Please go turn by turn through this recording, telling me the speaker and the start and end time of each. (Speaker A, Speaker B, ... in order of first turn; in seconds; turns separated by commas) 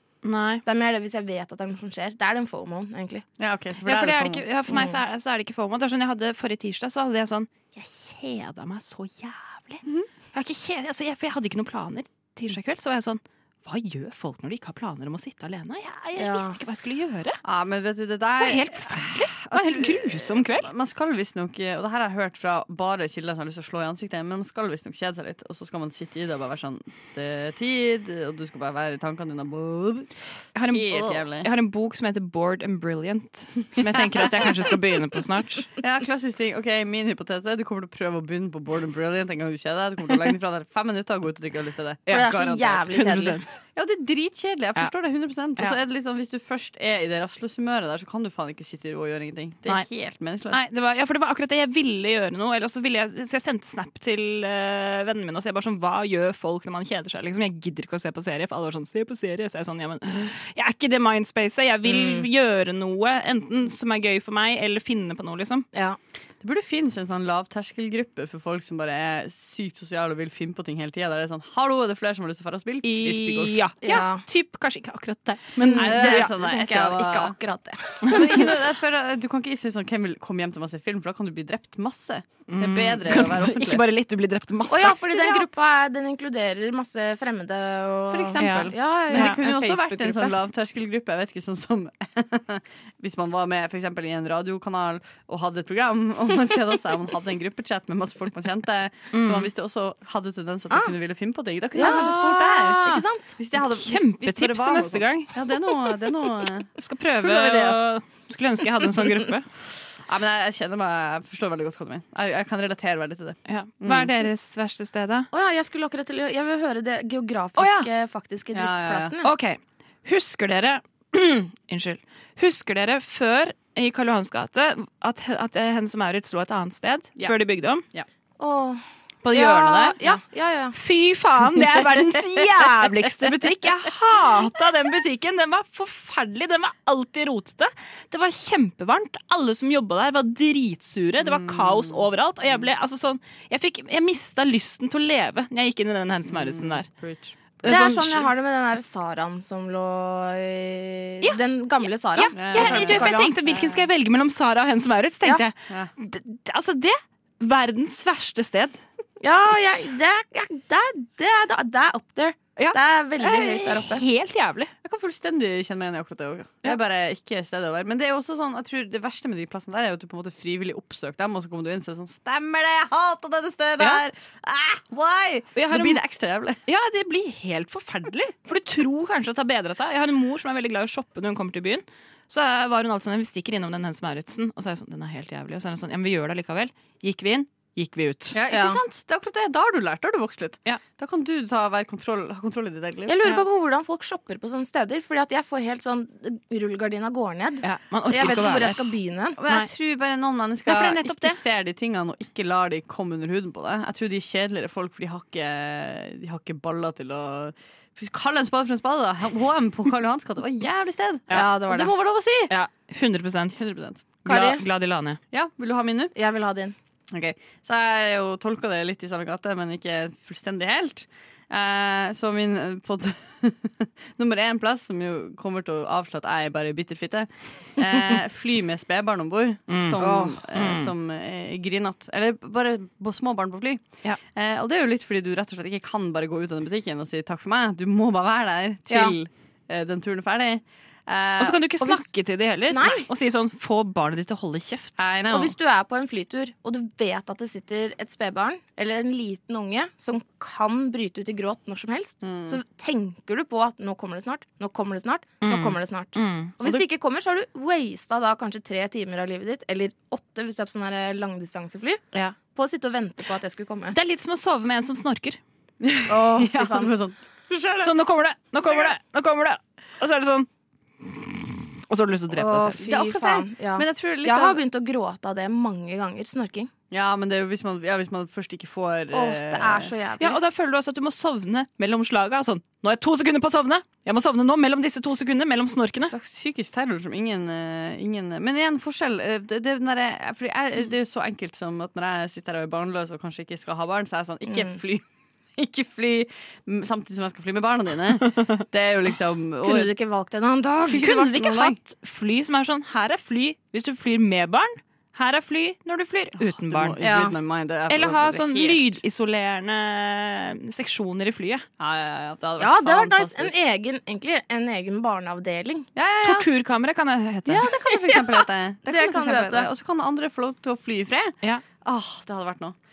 Speaker A: 0.2-0.6, Speaker B: 0.7-3.2, Speaker C: 3.4-4.9, Speaker A: 3.9-17.4, Speaker B: 16.2-16.6, Speaker C: 17.4-30.1, Speaker A: 18.4-20.7, Speaker A: 30.6-35.7, Speaker C: 30.7-31.5, Speaker C: 33.8-34.5, Speaker C: 35.8-43.0, Speaker A: 42.1-42.4, Speaker B: 42.1-43.5, Speaker A: 42.9-43.6, Speaker C: 43.8-50.6, Speaker A: 50.5-65.7, Speaker B: 61.9-62.3, Speaker B: 65.7-66.0, Speaker C: 66.4-73.6, Speaker A: 72.8-76.3, Speaker B: 73.8-74.2, Speaker B: 75.6-78.5, Speaker C: 75.7-77.3, Speaker A: 78.0-78.5, Speaker C: 78.1-83.8, Speaker A: 82.5-85.4, Speaker B: 84.7-90.3, Speaker C: 88.1-106.7, Speaker A: 88.4-89.4, Speaker A: 99.1-99.5, Speaker B: 101.8-103.3, Speaker A: 101.8-105.3, Speaker A: 106.8-109.5, Speaker C: 107.2-107.7, Speaker C: 110.1-114.1, Speaker A: 113.5-115.3, Speaker B: 115.3-119.3, Speaker C: 117.6-117.9, Speaker C: 118.5-119.1, Speaker A: 119.2-127.8, Speaker B: 128.4-130.8, Speaker A: 129.2-130.2, Speaker A: 130.7-146.9, Speaker C: 131.5-133.9, Speaker C: 141.2-142.1, Speaker C: 146.3-147.3, Speaker A: 147.6-148.3, Speaker B: 147.6-153.3, Speaker A: 152.2-158.8, Speaker C: 152.3-153.9, Speaker B: 159.2-164.0, Speaker A: 162.6-164.7, Speaker C: 164.8-176.6, Speaker A: 175.6-176.0, Speaker A: 176.7-188.4, Speaker C: 188.3-193.2, Speaker B: 188.5-188.8, Speaker B: 193.1-199.4, Speaker A: 197.6-198.8, Speaker C: 199.4-212.5, Speaker A: 200.7-201.4, Speaker B: 211.3-211.9, Speaker A: 212.5-213.6, Speaker C: 213.5-214.2, Speaker A: 214.2-215.2, Speaker B: 214.3-214.6, Speaker C: 215.3-216.1, Speaker B: 216.2-216.8, Speaker C: 217.1-241.6, Speaker A: 229.7-230.9, Speaker B: 230.0-230.4, Speaker B: 238.9-239.2, Speaker A: 241.4-245.0, Speaker B: 242.7-243.1, Speaker C: 245.0-245.6, Speaker B: 245.3-264.0, Speaker C: 252.2-252.6, Speaker A: 255.4-256.5, Speaker A: 263.9-265.4, Speaker C: 265.8-267.9, Speaker B: 266.1-266.9, Speaker A: 267.8-270.5, Speaker A: 271.0-272.8, Speaker B: 272.3-276.7, Speaker C: 272.8-274.6, Speaker C: 276.9-279.9, Speaker B: 279.1-280.4, Speaker A: 280.2-286.1, Speaker C: 286.0-295.0, Speaker B: 294.5-294.8, Speaker C: 295.6-299.9, Speaker B: 299.6-301.1, Speaker C: 300.9-301.8, Speaker A: 301.0-307.0, Speaker C: 306.4-309.0, Speaker B: 307.0-307.3, Speaker A: 307.9-311.6, Speaker C: 311.8-313.6, Speaker B: 312.6-315.9, Speaker C: 316.0-316.5, Speaker A: 316.2-317.7, Speaker C: 317.5-322.8, Speaker B: 318.9-319.7